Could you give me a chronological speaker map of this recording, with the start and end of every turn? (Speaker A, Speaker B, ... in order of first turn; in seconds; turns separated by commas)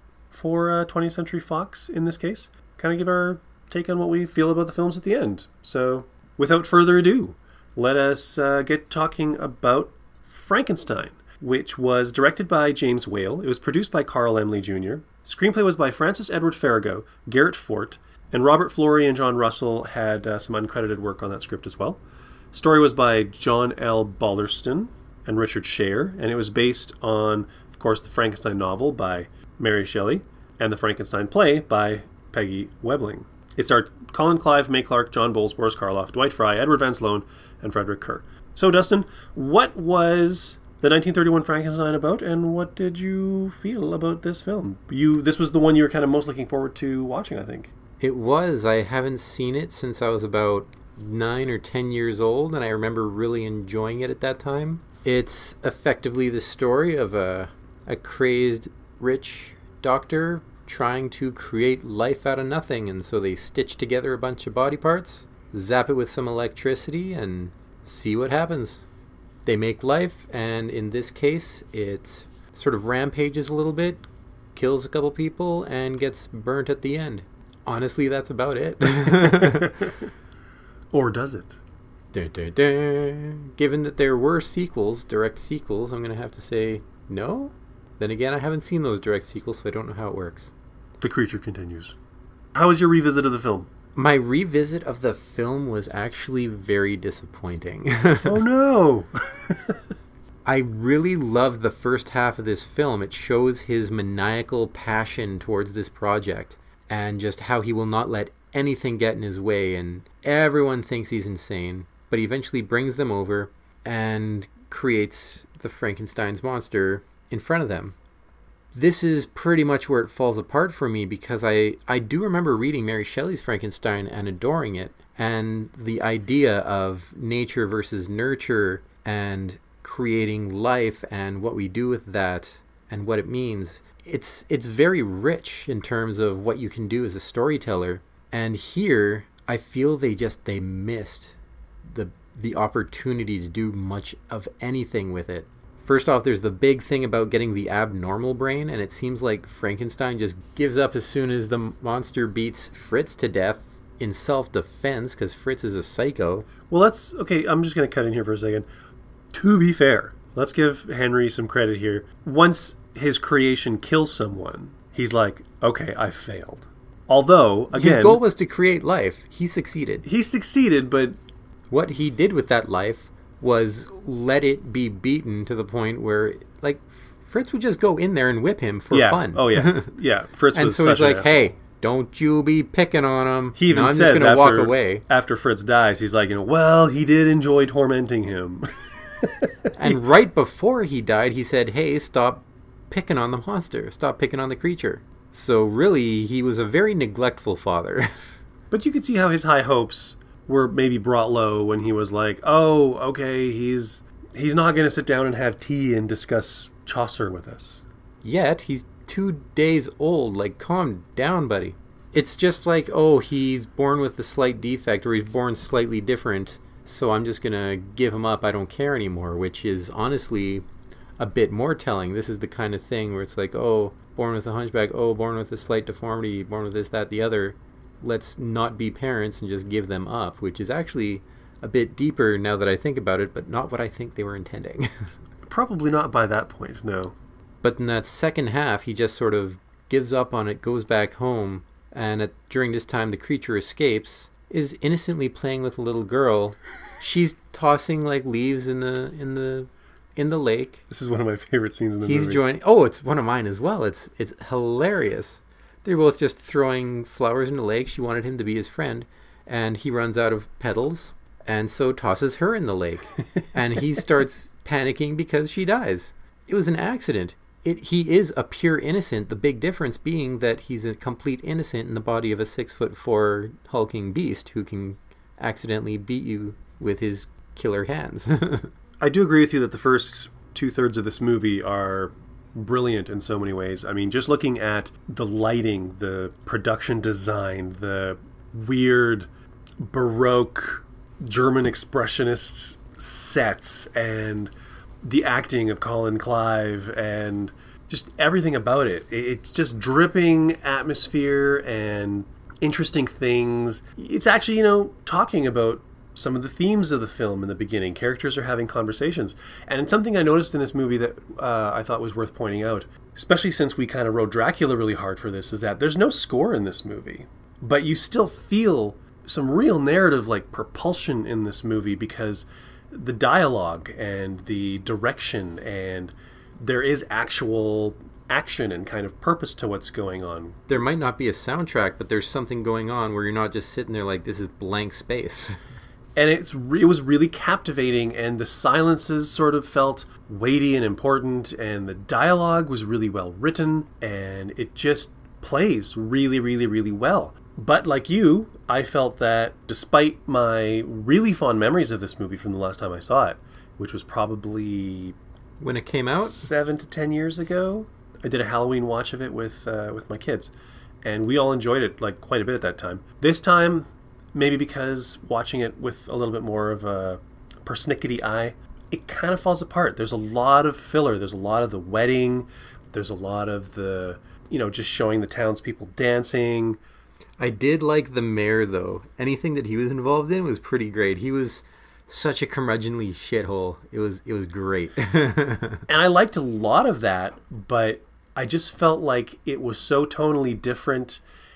Speaker A: 0.3-22.0, Speaker A: 22.5-47.7, Speaker B: 48.0-68.8, Speaker B: 69.5-74.0, Speaker B: 74.5-79.9, Speaker A: 79.4-80.0, Speaker A: 80.9-81.6, Speaker B: 82.1-90.5, Speaker A: 91.0-92.0, Speaker A: 92.5-93.7, Speaker B: 94.0-98.4, Speaker A: 98.2-99.8, Speaker B: 100.5-118.0, Speaker B: 118.7-156.5, Speaker A: 156.7-158.7, Speaker A: 159.3-168.2, Speaker B: 167.7-170.1, Speaker A: 170.0-171.2, Speaker B: 171.7-179.9, Speaker A: 178.9-181.6, Speaker B: 180.5-185.0, Speaker A: 183.6-190.0, Speaker B: 189.8-198.1, Speaker A: 198.7-207.9, Speaker B: 208.2-220.7, Speaker B: 221.2-235.1, Speaker A: 235.5-237.2, Speaker B: 237.6-250.8, Speaker A: 250.9-252.4, Speaker B: 252.0-278.7, Speaker A: 279.0-289.3, Speaker A: 289.8-330.6, Speaker B: 330.7-335.6, Speaker A: 336.2-355.2, Speaker B: 355.6-356.5, Speaker A: 356.1-360.5, Speaker A: 361.0-376.8, Speaker B: 377.4-385.8, Speaker A: 385.9-391.2